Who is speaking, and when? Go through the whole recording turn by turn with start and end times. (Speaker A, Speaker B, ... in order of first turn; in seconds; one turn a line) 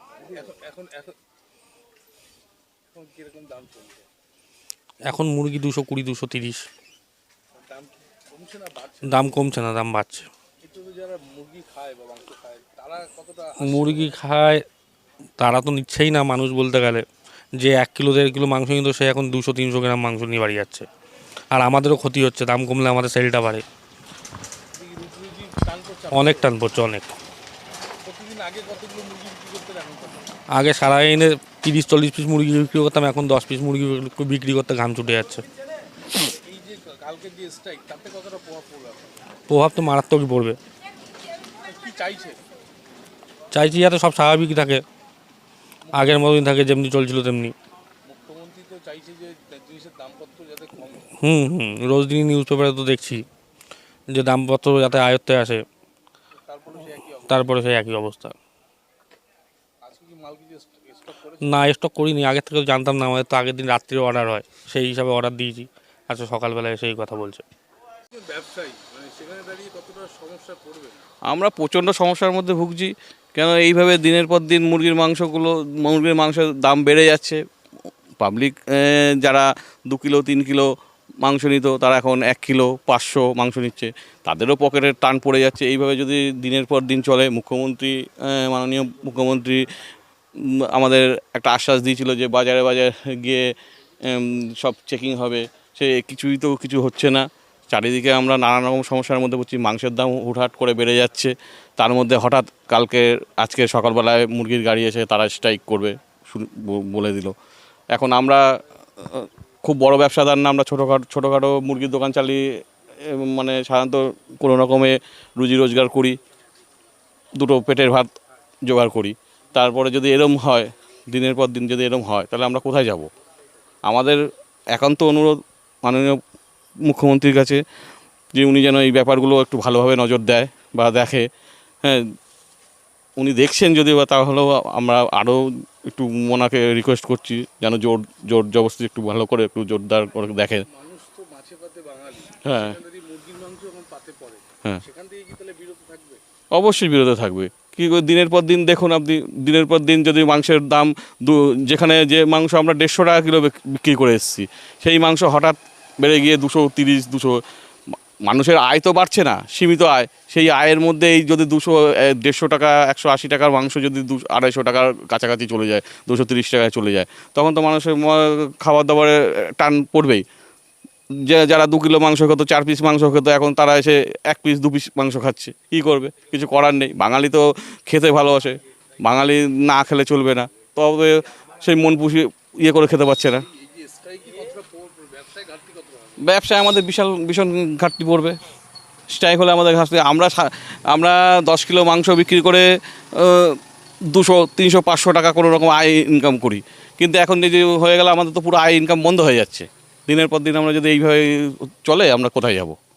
Speaker A: 0.2-1.1
Speaker A: 2.9-4.1
Speaker B: 5.1-6.6
Speaker A: 7.6-9.3
Speaker B: 9.0-10.3
Speaker A: 10.6-14.2
Speaker B: 13.6-14.6
Speaker B: 15.4-17.0
Speaker B: 17.6-20.9
Speaker B: 21.5-23.6
Speaker A: 24.7-26.5
Speaker B: 26.1-27.1
Speaker A: 28.0-30.3
Speaker B: 30.5-35.4
Speaker A: 36.4-39.3
Speaker B: 39.5-40.6
Speaker A: 41.6-42.4
Speaker B: 43.5-44.8
Speaker A: 45.9-46.3
Speaker B: 45.9-47.5
Speaker A: 48.0-51.1
Speaker B: 51.2-53.2
Speaker B: 54.1-55.6
Speaker A: 56.4-57.7
Speaker B: 57.3-58.3
Speaker A: 59.8-61.6
Speaker B: 61.4-67.4
Speaker A: 68.1-71.0
Speaker C: 71.3-77.4
Speaker C: 78.2-80.7
Speaker C: 81.2-89.6
Speaker C: 90.6-93.5
Speaker C: 94.1-107.3
Speaker C: 107.9-108.4
Speaker C: 109.0-112.4
Speaker C: 113.1-116.2
Speaker C: 117.4-118.1
Speaker C: 118.7-123.1
Speaker C: 123.9-124.2
Speaker C: 124.7-126.2
Speaker C: 126.8-127.6
Speaker C: 128.3-131.3
Speaker C: 133.2-140.6
Speaker A: 140.7-146.2
Speaker C: 142.4-142.8
Speaker C: 146.5-157.4
Speaker C: 158.2-170.2
Speaker C: 171.2-183.4
Speaker A: 183.5-186.2
Speaker C: 186.3-188.4
Speaker C: 189.1-193.6
Speaker C: 194.1-202.8